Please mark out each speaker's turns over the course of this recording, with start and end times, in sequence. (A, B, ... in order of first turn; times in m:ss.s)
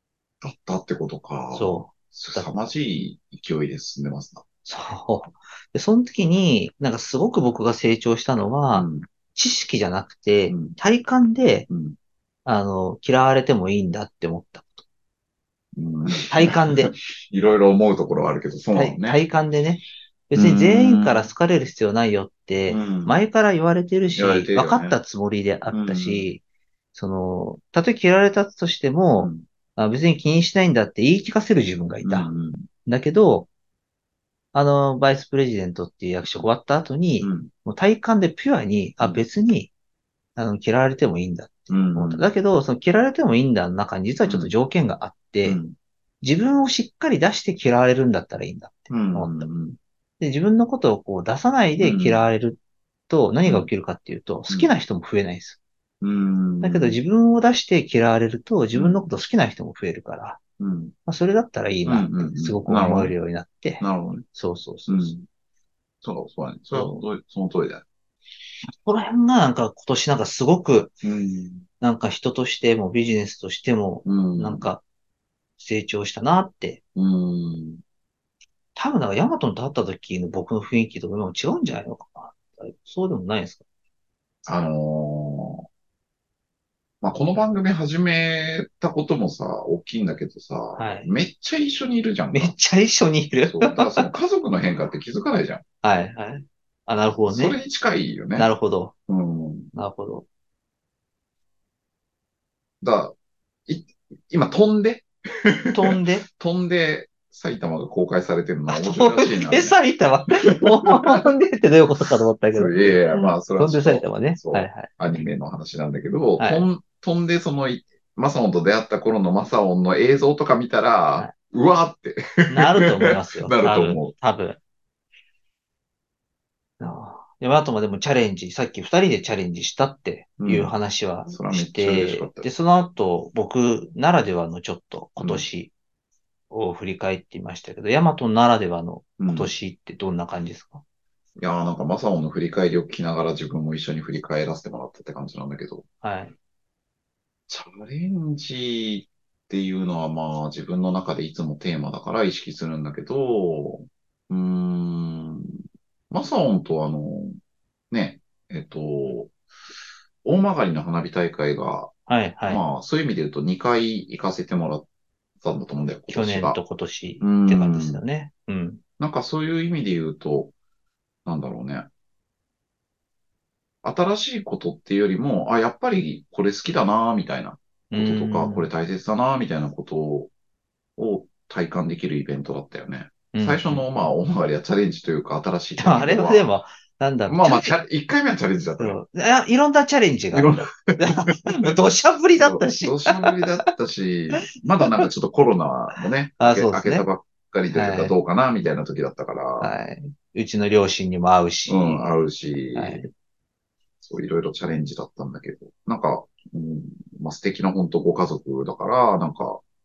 0:00.4-0:04.4 A
0:01.5-0:02.5 B
0:04.7-0:11.7 B
0:08.7-0:09.1 A
0:10.5-0:10.8 A
0:11.7-0:12.0 A
0:12.4-0:14.8 B
0:15.8-0:19.2 A
0:16.3-0:16.9 B
0:18.7-0:26.4 B
0:20.4-0:21.3 A
0:22.7-0:23.2 A
0:24.2-0:25.0 A
0:25.7-0:26.3 A
0:26.9-0:32.3 B
0:29.2-0:29.4 A
0:32.0-0:32.7 A
0:32.8-0:33.5 B
0:34.5-0:39.7 B
0:37.2-0:37.5 A
0:40.4-0:45.6 B
0:41.7-0:42.3 A
0:44.2-0:44.5 A
0:45.4-0:45.8 A
0:46.2-0:49.5 B
0:48.9-0:49.8 A
0:50.2-0:55.6 B
0:51.8-0:52.2 A
0:56.0-0:57.0 A
0:56.6-1:00.4 B
0:58.7-0:59.1 A
1:00.6-1:00.9 A
1:01.1-1:05.1 B
1:01.9-1:03.2 A
1:03.8-1:04.2 A
1:04.9-1:05.2 A
1:06.0-1:07.8 A
1:06.7-1:07.0 B
1:08.8-1:11.0 B
1:11.0-1:11.6 A
1:11.8-1:14.8 B
1:14.0-1:14.7 A
1:15.6-1:16.8 B
1:17.0-1:17.8 A
1:18.8-1:23.6 B
1:24.4-1:25.6 A
1:27.0-1:32.6 A
1:30.8-1:31.1 B
1:32.3-1:34.1 B
1:33.5-1:35.6 A
1:35.8-1:37.6 B
1:37.3-1:38.5 A
1:38.4-1:38.9 B
1:39.1-1:39.7 A
1:39.7-1:40.3 B
1:42.8-1:43.2 A
1:43.7-1:49.8 A
1:45.7-1:46.3 B
1:48.7-1:55.0 B
1:50.5-1:51.2 A
1:52.5-2:04.1 A
1:56.4-1:56.7 B
2:02.5-2:04.6 B
2:06.8-2:15.7 B
2:10.4-2:10.7 A
2:11.3-2:12.5 A
2:15.2-2:15.4 A
2:16.5-2:20.8 B
2:19.2-2:19.5 A
2:21.4-2:25.8 A
2:26.0-2:26.4 B
2:27.5-2:35.6 A
2:36.1-2:37.4 A
2:37.9-2:39.3 A
2:40.2-2:41.9 A
2:42.1-2:42.6 B
2:42.5-2:44.9 A
2:45.4-2:46.6 A
2:46.1-2:48.8 B
2:47.2-2:48.0 A
2:49.0-2:50.5 A
2:51.2-2:51.9 A
2:53.8-3:00.3 A
2:57.9-2:58.7 B
3:01.0-3:06.5 A
3:03.3-3:03.8 B
3:05.8-3:07.7 B
3:07.3-3:09.0 A
3:08.8-3:13.4 B
3:10.3-3:11.7 A
3:12.4-3:19.7 A
3:14.8-3:15.1 B
3:16.4-3:17.1 B
3:17.7-3:18.2 B
3:19.6-3:22.1 B
3:21.7-3:23.1 A
3:22.8-3:23.1 B
3:24.0-3:29.6 A